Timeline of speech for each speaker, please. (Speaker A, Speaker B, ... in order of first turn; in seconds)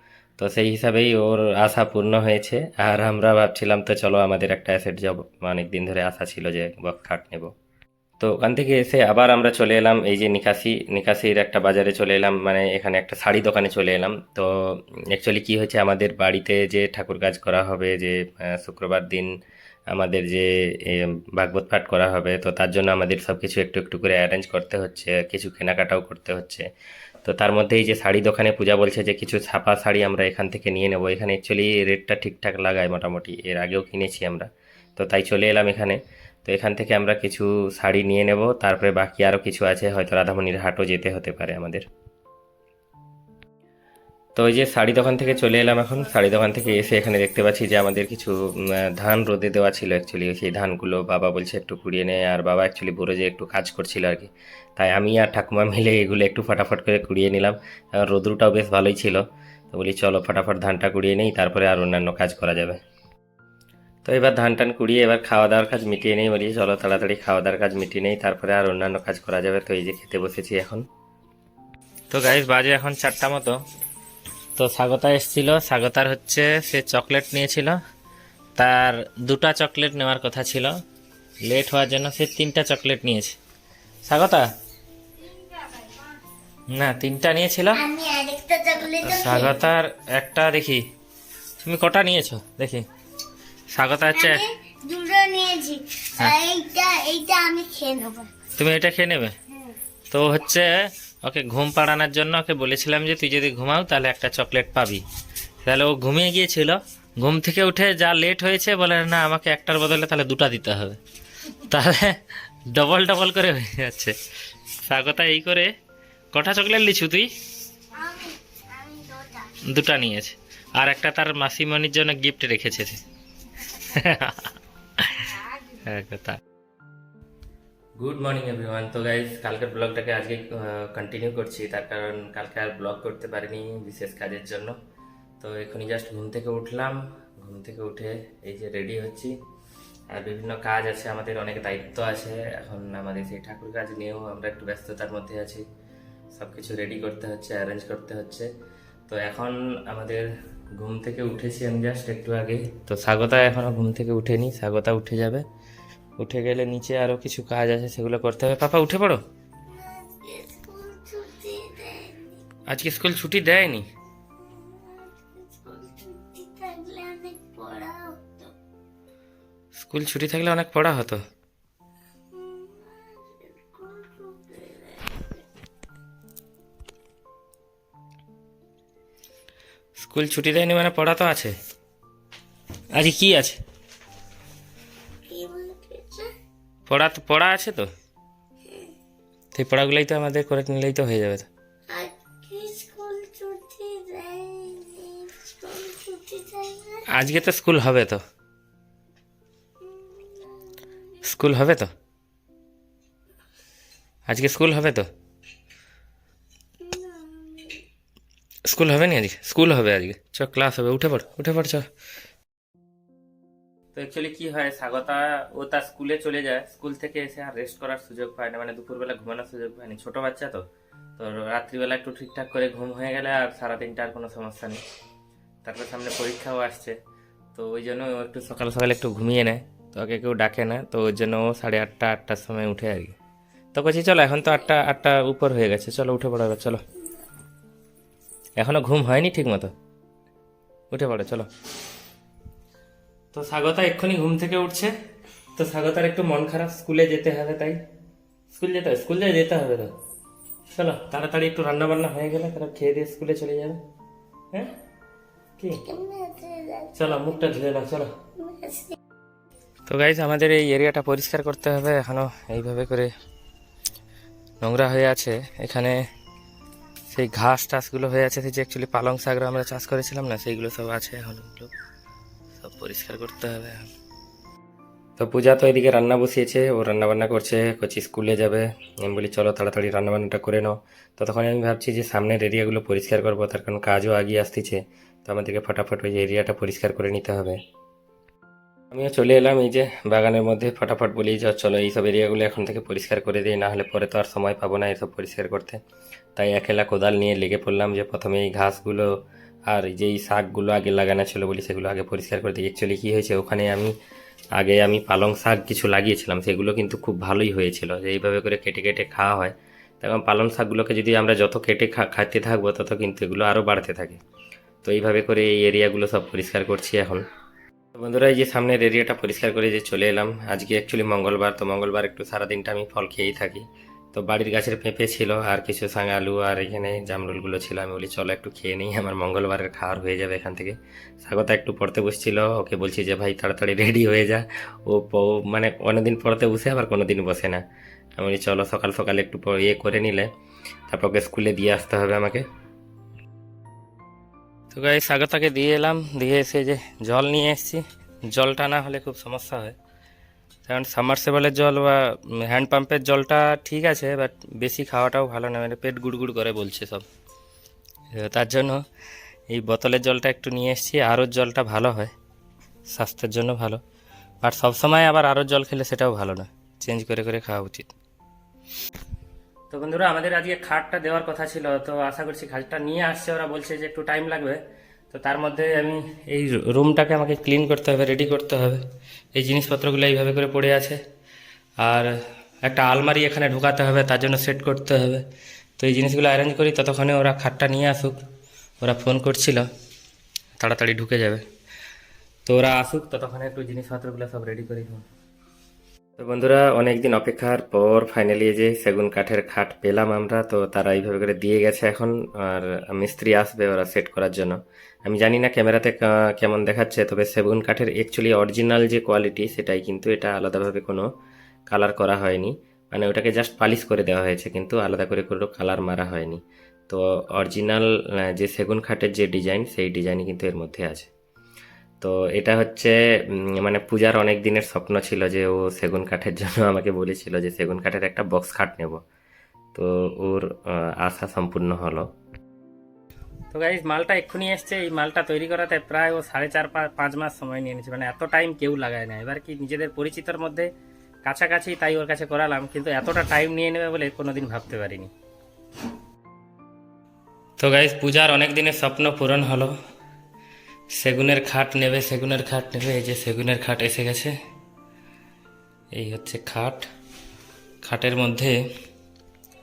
Speaker A: 0.4-7.5, 8.2-19.3, 19.9-26.6, 27.2-41.8, 44.4-62.8, 64.0-70.8, 72.1-73.6, 74.5-77.8, 78.5-80.8, 81.4-83.4, 84.0-84.5, 86.7-87.8, 89.0-90.8, 91.6-92.8, 93.7-94.4, 98.5-99.3, 100.1-105.0, 105.6-114.2, 114.8-115.7, 116.3-117.3, 119.6-123.0, 123.7-126.4, 128.0-134.7, 135.4-139.3, 140.1-145.6, 146.3-148.5, 149.1-155.4, 156.2-159.2, 162.7-163.9, 169.8-171.2, 180.0-181.5, 182.9-183.6, 186.9-187.9, 189.5-191.5, 197.1-198.2, 201.2-201.9, 204.3-205.1, 208.6-211.9, 213.9-220.7, 221.2-224.8, 225.6-227.0, 227.5-233.1, 233.7-236.8, 238.6-239.7, 240.9-241.5, 243.3-244.9, 245.5-247.8, 248.5-249.9, 250.7-253.8, 255.6-255.8, 256.9-258.1, 259.9-263.1, 264.6-266.0, 267.1-271.7, 272.6-273.9, 275.2-287.6, 288.9-295.8, 296.4-299.1, 299.6-303.9, 304.6-314.2, 314.8-317.2, 317.9-337.6, 338.2-340.3, 340.9-342.4, 344.7-349.8, 350.6-357.1, 358.1-358.8, 359.5-362.1, 362.9-363.8, 364.4-367.9, 369.7-374.6, 375.1-378.8, 379.3-381.0, 381.8-385.2, 385.8-388.2, 388.8-389.6, 390.6-391.4, 392.4-395.0, 396.2-411.1, 411.7-421.1, 422.0-429.0, 429.7-432.1, 433.5-440.7, 441.2-445.1, 447.6-449.7, 450.9-454.3, 455.9-456.8, 457.8-458.6
Speaker B: 87.7-89.6, 94.1-98.3, 117.9-119.6, 159.7-162.4, 164.4-168.5, 172.3-175.4, 185.3-186.3, 188.6-188.9, 191.9-197.0, 199.8-200.9, 206.8-207.8, 255.8-257.3, 258.4-259.0